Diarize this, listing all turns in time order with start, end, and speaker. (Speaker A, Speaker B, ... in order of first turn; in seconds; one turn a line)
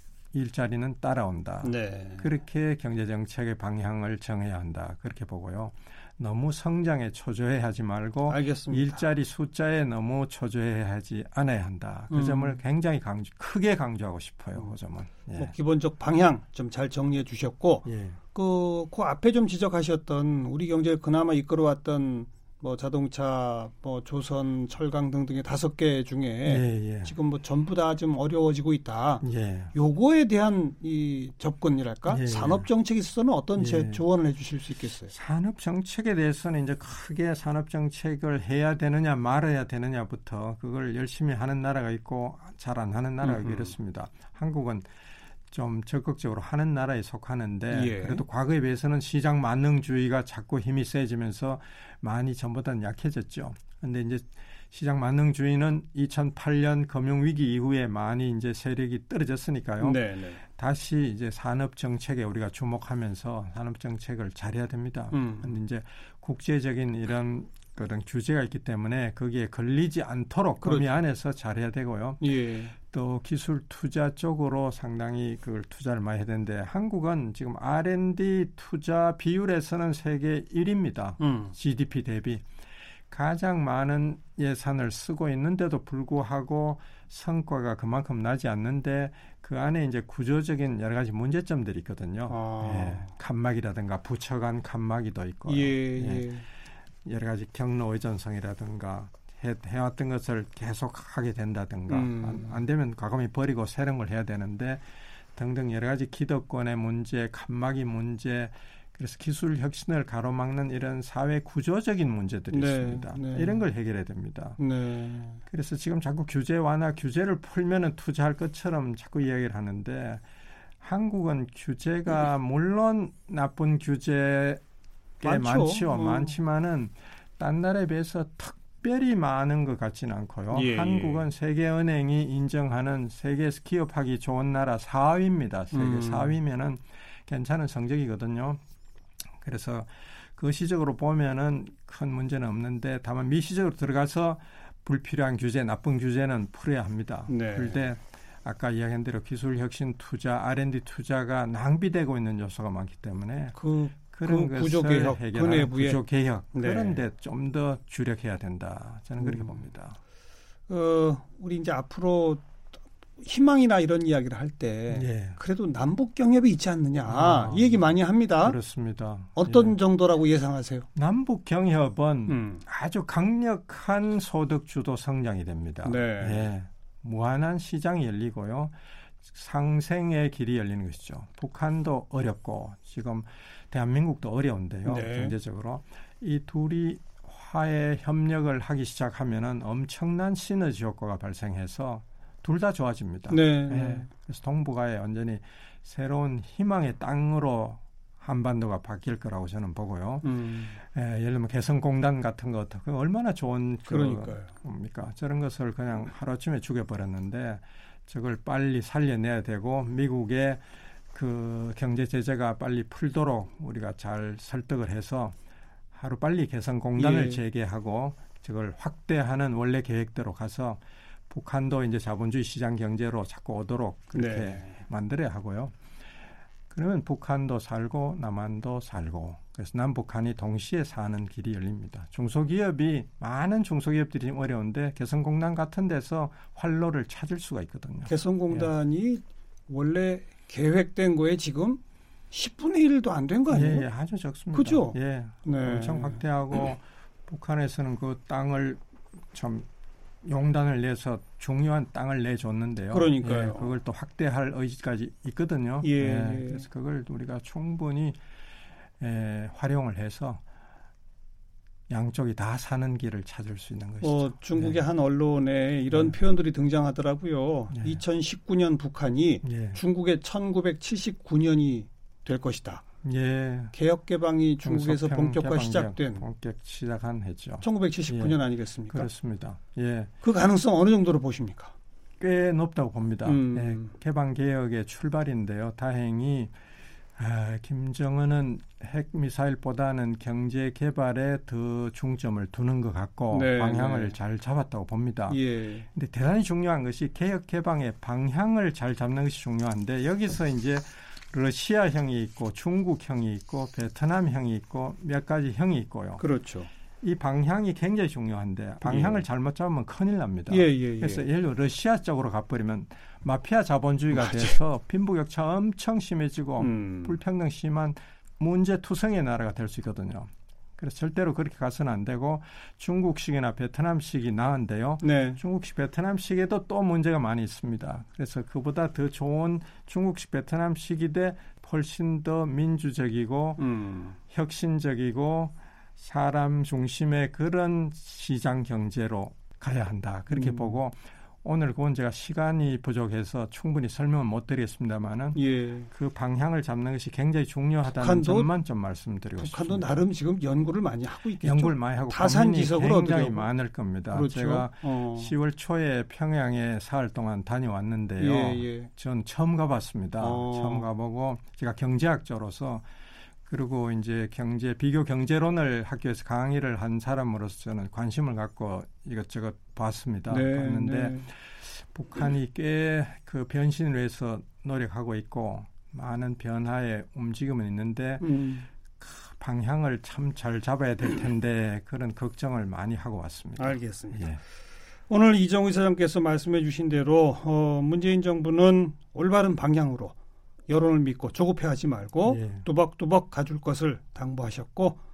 Speaker A: 0.3-15.5
Speaker B: 1.6-2.3
Speaker B: 8.3-9.1
Speaker B: 12.1-12.6
Speaker B: 15.4-35.1
Speaker A: 17.9-18.2
Speaker A: 26.5-27.1
Speaker A: 29.2-29.7
Speaker A: 32.1-32.6
Speaker A: 33.6-34.0
Speaker A: 35.1-44.9
Speaker B: 43.2-43.7
Speaker A: 45.5-82.5
Speaker B: 47.7-48.2
Speaker B: 59.8-60.4
Speaker B: 65.1-65.6
Speaker B: 72.2-72.8
Speaker B: 81.2-81.5
Speaker A: 83.1-96.3
Speaker B: 92.3-93.1
Speaker B: 95.5-96.5
Speaker A: 97.0-114.6
Speaker B: 101.9-102.6
Speaker B: 112.5-113.6
Speaker B: 114.6-115.4
Speaker A: 115.5-120.2
Speaker A: 120.8-124.6
Speaker A: 125.2-138.6
Speaker B: 125.2-126.4
Speaker B: 130.5-131.3
Speaker B: 135.7-136.4
Speaker A: 139.4-153.6
Speaker B: 147.3-147.8
Speaker B: 153.6-156.0
Speaker A: 154.1-160.0
Speaker B: 156.5-157.0
Speaker B: 159.2-159.7
Speaker B: 160.7-162.4
Speaker B: 163.2-168.6
Speaker A: 164.9-165.4
Speaker A: 167.1-169.8
Speaker B: 169.4-170.9
Speaker A: 170.9-178.7
Speaker B: 172.3-172.6
Speaker B: 175.8-176.5
Speaker A: 179.2-215.4
Speaker B: 184.8-185.3
Speaker B: 193.3-194.1
Speaker B: 200.2-200.8
Speaker B: 203.9-204.5
Speaker A: 215.9-225.8
Speaker B: 217.0-217.4
Speaker B: 224.1-224.8
Speaker A: 226.7-238.7
Speaker B: 238.1-243.9
Speaker A: 243.5-249.7
Speaker B: 244.5-246.2
Speaker A: 250.2-258.2
Speaker B: 252.9-253.8
Speaker B: 255.8-256.6
Speaker A: 259.0-260.4
Speaker A: 261.9-264.8
Speaker B: 264.0-272.8
Speaker A: 265.9-266.1
Speaker A: 267.7-268.0
Speaker A: 269.4-269.8
Speaker A: 273.0-273.7
Speaker B: 273.7-276.2
Speaker A: 274.6-280.1
Speaker B: 277.6-279.1
Speaker B: 280.2-281.7
Speaker A: 282.2-286.5
Speaker B: 283.2-283.9
Speaker A: 287.2-295.4
Speaker B: 293.3-294.1
Speaker B: 295.3-295.9
Speaker A: 295.9-306.2
Speaker B: 306.2-306.7
Speaker A: 307.0-333.6
Speaker B: 308.8-309.2
Speaker B: 310.5-311.2
Speaker B: 314.1-314.6
Speaker B: 316.6-317.2
Speaker B: 325.0-325.4
Speaker B: 333.6-334.2
Speaker A: 334.3-350.0
Speaker B: 340.3-340.8
Speaker B: 345.4-345.9
Speaker B: 347.9-348.5
Speaker B: 349.4-353.5
Speaker A: 351.4-362.9
Speaker B: 354.1-355.3
Speaker B: 358.2-358.9
Speaker B: 360.2-360.9
Speaker A: 363.5-378.4
Speaker B: 370.3-371.3
Speaker B: 378.2-378.7
Speaker A: 378.9-384.4
Speaker B: 383.6-384.3
Speaker B: 385.1-390.2
Speaker B: 390.7-395.0
Speaker A: 392.2-392.7